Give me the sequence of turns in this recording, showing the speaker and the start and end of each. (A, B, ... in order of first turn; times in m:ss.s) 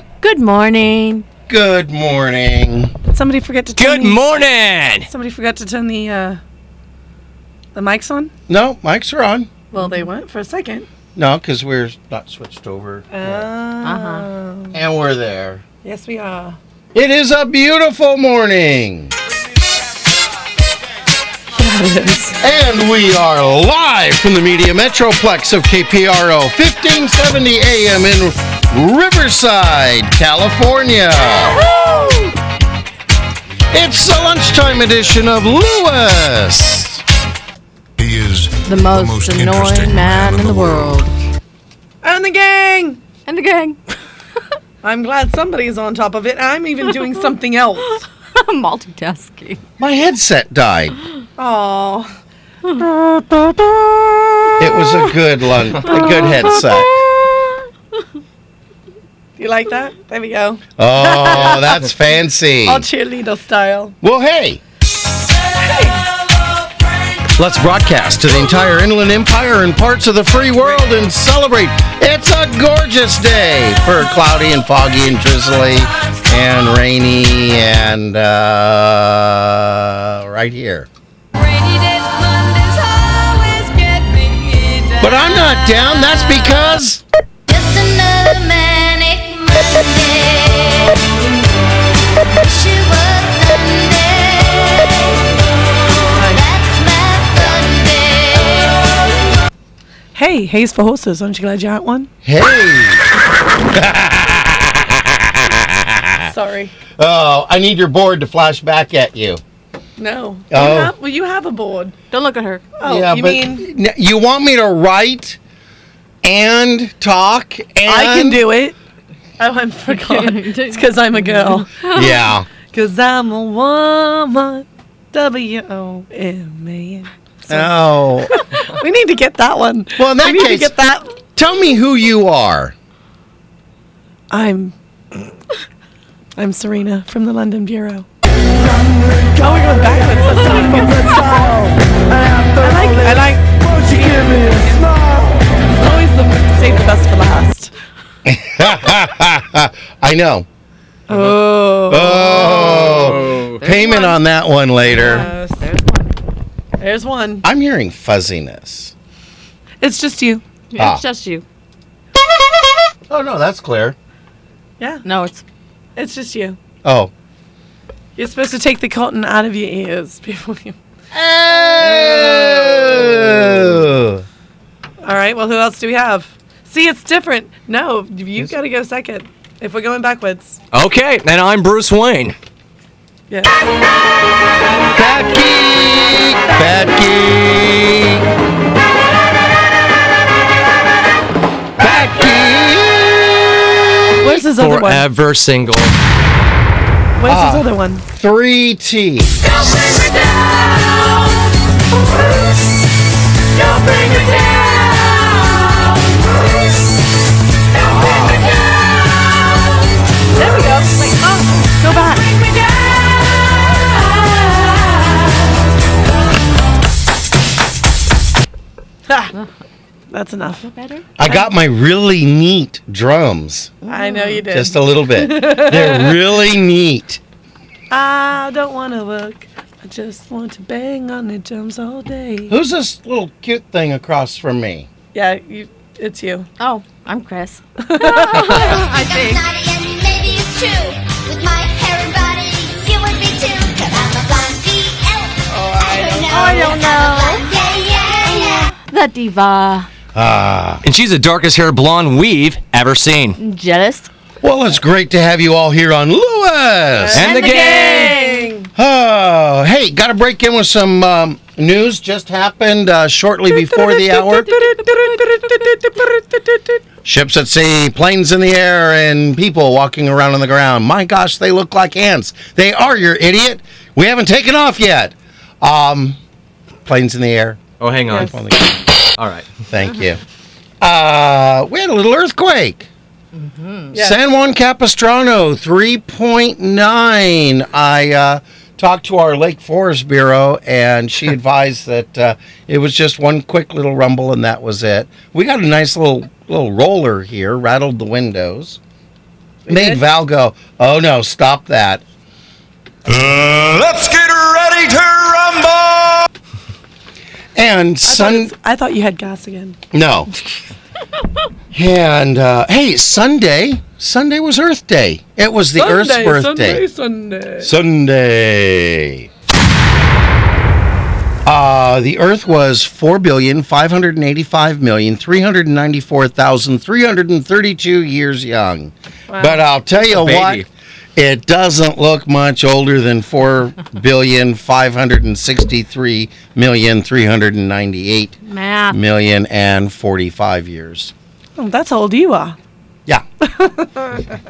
0:00.2-0:01.2 A
0:01.5-0:02.9 B
0:03.1-0:04.2 C
0:03.8-0:05.1 D
0:05.1-0:06.4 C
0:07.7-0:08.3 C
0:08.5-0:09.5 B
0:09.7-0:10.9 C
0:09.8-0:10.1 A
0:11.1-0:13.5 B
0:13.1-0:14.8 C
0:13.8-0:14.3 A
0:14.7-0:15.6 B
0:15.8-0:16.6 C
0:16.9-0:19.1 B
0:21.5-0:22.4 C
0:22.4-0:31.6 B
0:31.6-0:32.2 A
0:33.7-0:37.0 B
0:38.0-0:40.9 E
0:38.6-0:41.1 A
0:42.0-0:43.0 C
0:43.2-0:44.0 A
0:44.8-0:48.0 C
0:48.3-0:49.6 A
0:49.8-0:51.0 B
0:51.4-0:52.1 C
0:52.8-0:53.9 C
0:54.6-0:57.0 B
0:55.8-0:57.6 A
0:55.9-0:56.4 C
0:59.4-1:01.8 C
1:00.8-1:02.8 B
1:02.6-1:03.9 C
1:04.0-1:04.6 B
1:05.6-1:06.0 C
1:07.4-1:20.9 B
1:21.4-1:25.8 A
1:23.0-1:23.2 F
1:25.0-1:27.0 B
1:27.5-1:31.1 F
1:32.3-1:39.0 F
1:36.1-1:36.4 C
1:40.1-1:42.1 C
1:42.2-1:43.1 B
1:43.7-1:46.3 B
1:46.2-1:46.7 C
1:47.0-1:49.4 B
1:50.0-1:51.9 C
1:50.5-1:50.9 B
1:52.1-1:52.6 A
1:52.8-1:53.6 C
1:52.8-1:55.4 B
1:56.2-1:58.5 B
1:57.8-1:58.8 C
1:59.4-2:01.7 C
1:59.9-2:02.1 A
2:01.9-2:02.5 B
2:02.7-2:11.1 C
2:07.5-2:08.3 B
2:10.0-2:10.7 B
2:11.4-2:12.7 B
2:14.3-2:14.7 C
2:16.4-2:18.1 C
2:19.0-2:21.8 C
2:20.2-2:21.4 A
2:22.5-2:27.7 C
2:22.6-2:23.2 A
2:28.2-2:30.4 B
2:31.1-2:32.6 C
2:31.1-2:31.4 D
2:31.9-2:35.3 B
2:32.1-2:33.0 A
2:32.6-2:33.6 D
2:33.6-2:34.2 A
2:34.9-2:36.1 A
2:35.0-2:35.6 C
2:36.8-2:37.4 C
2:37.4-2:38.9 B
2:39.8-2:40.4 C
2:40.7-2:41.4 A
2:40.8-2:41.0 B
2:43.1-2:44.0 B
2:44.8-2:45.0 C
2:45.0-2:45.4 A
2:46.0-2:46.6 C
2:46.8-2:47.1 B
2:48.2-2:50.8 C
2:51.1-2:54.2 B
2:51.8-2:53.0 C
2:55.0-3:00.6 C
3:00.7-3:02.4 D
3:04.9-3:08.3 B
3:11.8-3:13.3 B
3:14.2-3:15.0 C
3:14.6-3:15.9 D
3:17.2-3:18.0 C
3:17.3-3:19.4 B
3:23.7-3:24.6 A
3:27.8-3:28.5 B
3:30.4-3:31.4 A
3:30.4-3:32.3 C
3:33.9-3:35.0 A
3:39.1-3:39.3 C
3:40.1-3:40.7 C
3:40.6-3:41.5 A
3:41.2-3:43.7 B
3:43.8-3:44.5 A
3:43.9-3:46.2 C
3:44.5-3:47.2 B
3:47.9-3:52.5 C
3:52.5-3:54.9 B
3:55.1-3:56.5 C
3:56.6-3:59.4 A
3:57.8-3:58.5 C
3:58.5-4:08.7 F
4:05.5-4:06.8 C
4:06.3-4:07.5 A
4:08.2-4:09.9 A
4:10.1-4:10.8 B
4:10.8-4:13.4 D
4:13.4-4:14.1 A
4:14.4-4:17.3 B
4:17.0-4:18.7 C
4:17.2-4:18.1 D
4:17.2-4:18.5 A
4:18.8-4:24.6 B
4:23.7-4:26.8 C
4:24.9-4:25.2 A
4:27.0-4:36.2 B
4:36.8-4:39.0 B
4:37.8-4:38.4 D
4:39.2-4:39.6 D
4:39.7-4:40.2 B
4:40.8-4:42.9 B
4:43.4-4:43.9 A
4:43.9-4:44.2 C
4:43.9-4:58.8 B
4:59.6-5:00.0 C
4:59.7-5:02.0 B
5:03.1-5:06.2 E
5:07.5-5:08.5 B
5:08.0-5:09.8 C
5:09.9-5:10.3 B
5:11.7-5:16.8 B
5:15.8-5:17.7 C
5:17.6-5:19.3 B
5:21.4-5:38.4 B
5:29.3-5:29.6 C
5:29.9-5:30.6 D
5:38.4-5:39.0 A
5:38.9-5:41.1 B
5:41.6-5:42.6 C
5:43.4-5:44.2 C